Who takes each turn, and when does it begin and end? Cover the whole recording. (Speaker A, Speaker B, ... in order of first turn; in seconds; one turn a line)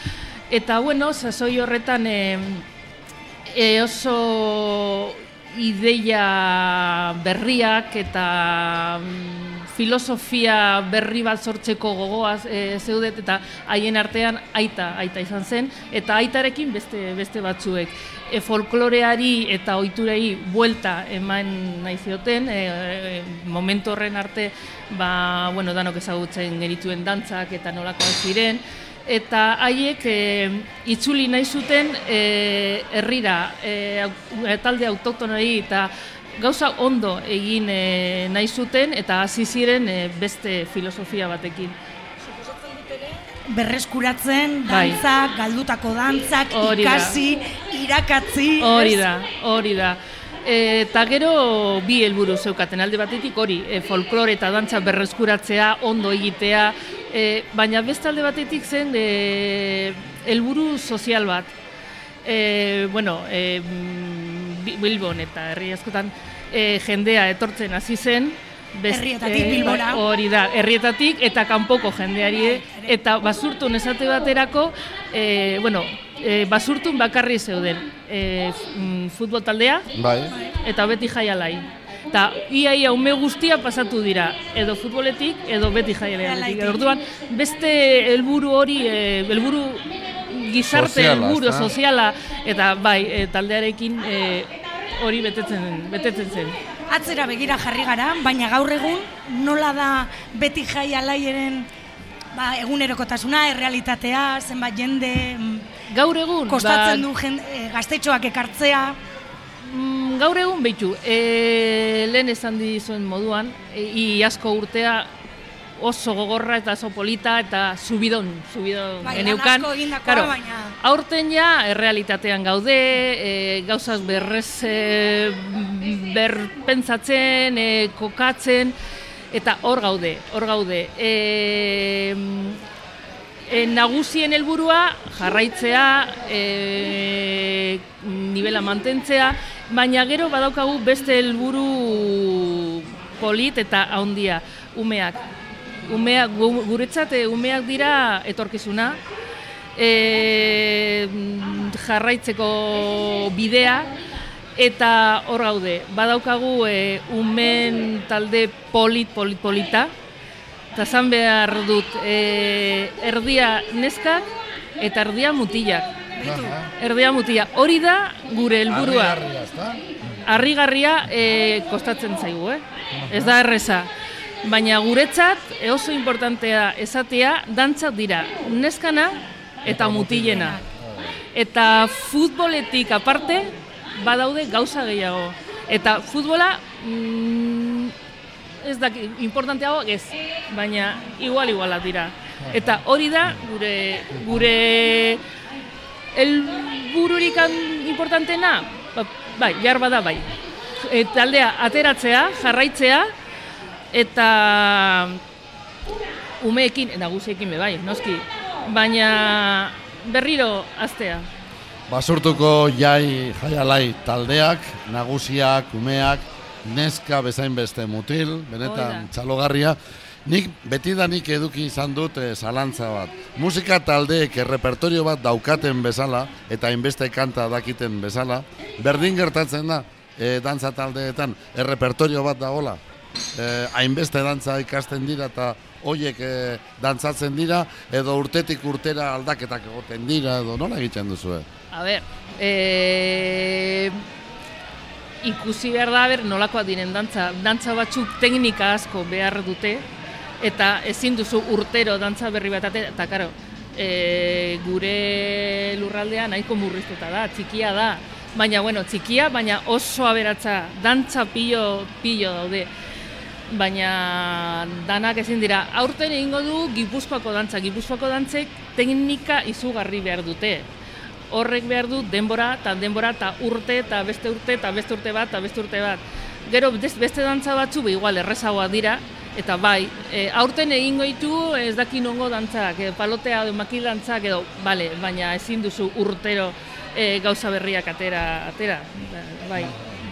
Speaker A: 0.5-2.6
Speaker A: 3.5-41.7
Speaker B: 42.2-49.0
Speaker A: 44.7-45.0
Speaker A: 46.5-47.2
Speaker A: 48.6-61.5
Speaker A: 62.2-79.9
Speaker B: 68.9-70.0
Speaker B: 72.4-73.0
Speaker C: 79.9-80.3
Speaker A: 80.6-96.6
Speaker B: 86.2-86.8
Speaker C: 90.7-91.7
Speaker B: 96.9-101.7
Speaker B: 102.3-105.7
Speaker A: 105.9-107.0
Speaker B: 106.5-109.0
Speaker A: 109.6-115.1
Speaker A: 115.8-128.8
Speaker B: 119.0-120.8
Speaker A: 129.3-132.6
Speaker A: 133.5-145.2
Speaker A: 145.9-149.0
Speaker A: 149.8-153.9
Speaker A: 154.6-159.9
Speaker A: 160.7-164.2
Speaker A: 164.8-165.9
Speaker B: 166.2-166.6
Speaker C: 166.2-166.7
Speaker A: 166.7-169.2
Speaker C: 168.7-169.8
Speaker A: 170.2-173.9
Speaker C: 172.9-173.3
Speaker A: 174.4-180.6
Speaker C: 179.7-181.1
Speaker A: 181.3-187.9
Speaker A: 188.6-195.2
Speaker C: 192.4-192.8
Speaker A: 196.1-203.1
Speaker A: 203.9-205.2
Speaker A: 206.4-211.3
Speaker C: 211.9-232.8
Speaker A: 218.6-219.1
Speaker C: 233.3-241.5
Speaker A: 241.7-244.0
Speaker A: 245.2-249.8
Speaker A: 250.4-262.7
Speaker A: 263.5-270.7
Speaker A: 271.3-289.7
Speaker C: 289.6-290.0